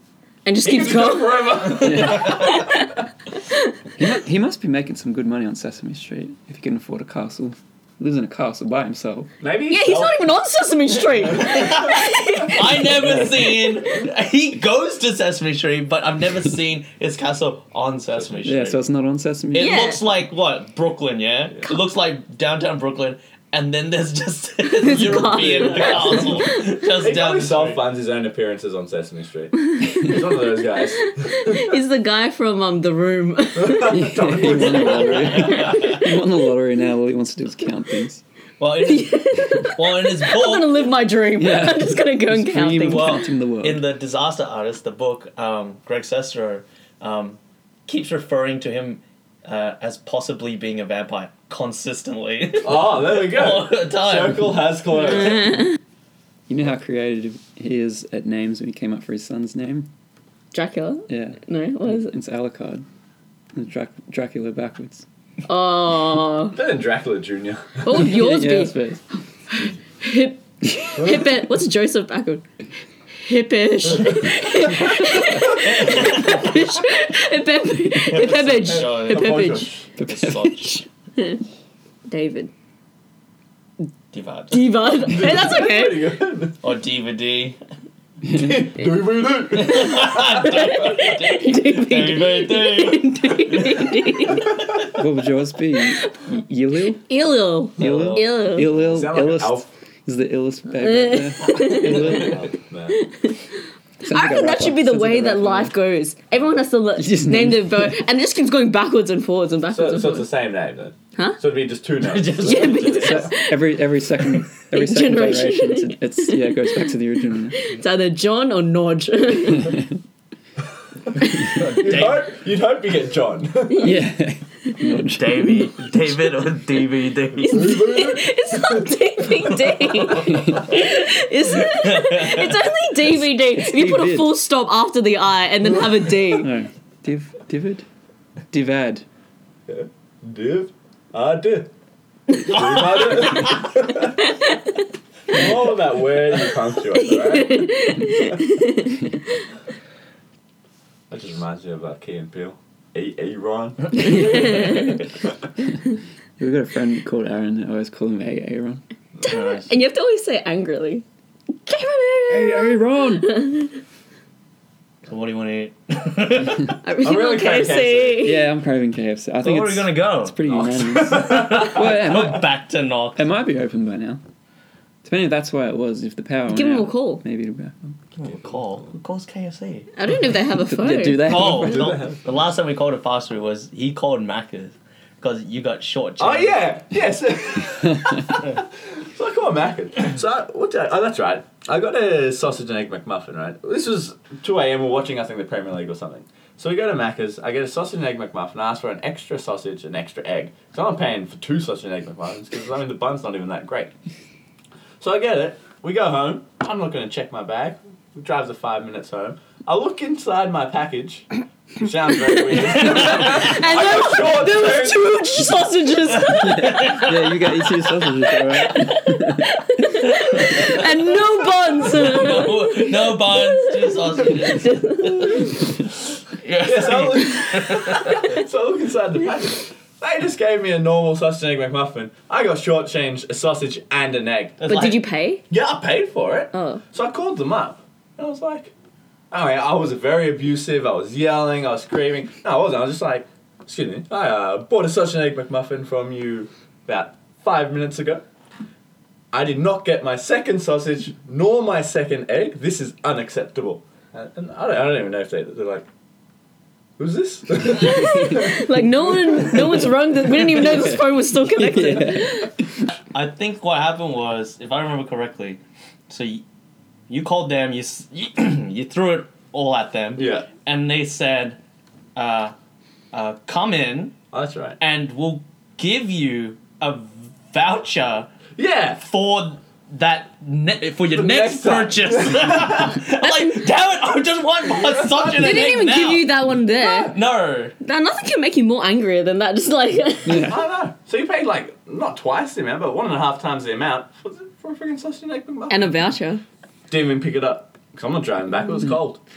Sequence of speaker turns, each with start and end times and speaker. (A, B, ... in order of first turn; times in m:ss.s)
0:00.4-0:03.7 A
0:00.6-0:02.8 B
0:01.8-0:02.6 C
0:04.0-0:09.3 C
0:09.4-0:10.2 B
0:09.7-0:12.9 A
0:11.3-0:18.8 D
0:13.0-0:13.3 C
0:18.4-0:19.8 C
0:19.5-0:27.8 D
0:19.6-0:20.0 A
0:24.6-0:26.8 A
0:25.2-0:31.7 B
0:29.8-0:34.1 A
0:33.6-0:35.5 B
0:33.8-0:38.2 C
0:34.4-0:36.1 D
0:35.6-0:36.0 A
0:38.6-0:40.9 D
0:38.8-0:43.2 A
0:41.4-0:43.8 C
0:42.8-0:54.6 D
0:52.6-0:55.6 B
0:55.1-0:55.6 A
0:56.5-0:59.9 C
1:00.5-1:02.1 A
1:01.1-1:02.8 C
1:03.5-1:05.0 C
1:05.4-1:06.6 A
1:06.5-1:08.0 B
1:07.8-1:08.8 A
1:07.9-1:09.0 C
1:09.5-1:12.4 A
1:13.2-1:19.7 A
1:15.2-1:16.8 D
1:18.0-1:19.5 D
1:18.6-1:19.9 B
1:20.0-1:20.8 C
1:20.0-1:20.8 D
1:22.1-1:22.5 A
1:24.1-1:24.8 D
1:24.5-1:26.2 A
1:25.0-1:26.6 B
1:26.6-1:27.6 D
1:28.2-1:28.7 C
1:28.3-1:30.4 B
1:29.5-1:34.9 D
1:30.3-1:34.6 A
1:34.8-1:37.0 C
1:37.0-1:38.7 A
1:37.8-1:42.5 C
1:37.8-1:38.4 D
1:38.7-1:39.6 B
1:40.8-1:42.3 A
1:41.9-1:43.0 B
1:42.9-1:43.4 A
1:44.0-1:45.7 C
1:44.0-1:50.3 A
1:47.0-1:48.0 C
1:49.7-1:53.3 B
1:52.0-1:53.1 D
1:52.4-1:53.7 A
1:52.8-1:57.6 C
1:54.7-1:56.9 A
1:57.5-1:59.8 A
2:01.4-2:04.0 B
2:01.4-2:02.3 D
2:03.7-2:04.0 A
2:03.8-2:05.7 C
2:05.1-2:07.9 D
2:07.4-2:16.5 A
2:07.5-2:08.8 B
2:09.4-2:10.8 D
2:10.1-2:10.7 C
2:11.6-2:12.7 D
2:13.0-2:14.3 C
2:16.4-2:17.8 C
2:18.5-2:19.0 C
2:19.7-2:21.7 B
2:22.4-2:24.1 B
2:22.5-2:23.7 D
2:24.2-2:24.7 A
2:25.3-2:27.7 B
2:27.0-2:29.1 A
2:31.1-2:34.8 B
2:34.0-2:35.0 A
2:34.1-2:34.9 C
2:36.4-2:38.8 C
2:39.2-2:39.7 D
2:39.2-2:41.0 A
2:41.6-2:43.8 A
2:42.3-2:43.5 C
2:45.0-2:46.8 D
2:46.8-2:48.4 A
2:47.0-2:48.3 B
2:48.2-2:52.5 C
2:49.4-2:53.2 D
2:51.1-2:51.8 B
2:53.2-2:54.2 C
2:55.0-2:58.0 C
2:56.5-2:57.2 A
2:58.2-2:59.9 D
3:00.0-3:01.5 A
3:00.6-3:02.0 C
3:01.2-3:06.7 D
3:01.5-3:02.2 B
3:06.2-3:23.9 B
3:25.0-3:35.1 B
3:32.2-3:36.9 A
3:32.8-3:33.5 D
3:36.2-3:37.5 D
3:36.3-3:39.5 C
3:38.2-3:45.7 A
3:40.0-3:40.9 D
3:41.7-3:48.3 D
3:46.6-3:54.7 B
3:54.6-3:55.0 D
3:54.7-3:55.4 A
3:55.5-3:58.7 B
3:56.5-3:56.8 A
3:59.3-4:08.2 B
4:09.3-4:15.9 B
4:17.0-4:19.8 B
4:17.6-4:22.5 A
4:20.4-4:22.6 C
4:23.1-4:26.4 D
4:27.1-4:31.6 D
4:30.2-4:30.5 B
4:32.2-4:32.5 D
4:33.1-4:34.2 D
4:34.3-4:34.8 B
4:34.8-4:38.3 D
4:38.6-4:39.0 B
4:39.0-4:46.3 D
4:41.1-4:42.9 B
4:43.2-4:43.6 A
4:45.0-4:45.3 B
4:45.3-4:47.1 A
4:46.8-4:47.1 B
4:46.9-4:47.7 D
4:47.8-4:50.6 A
4:50.2-4:50.6 C
4:50.4-4:56.1 B
4:55.7-4:56.4 A
4:56.9-4:59.2 B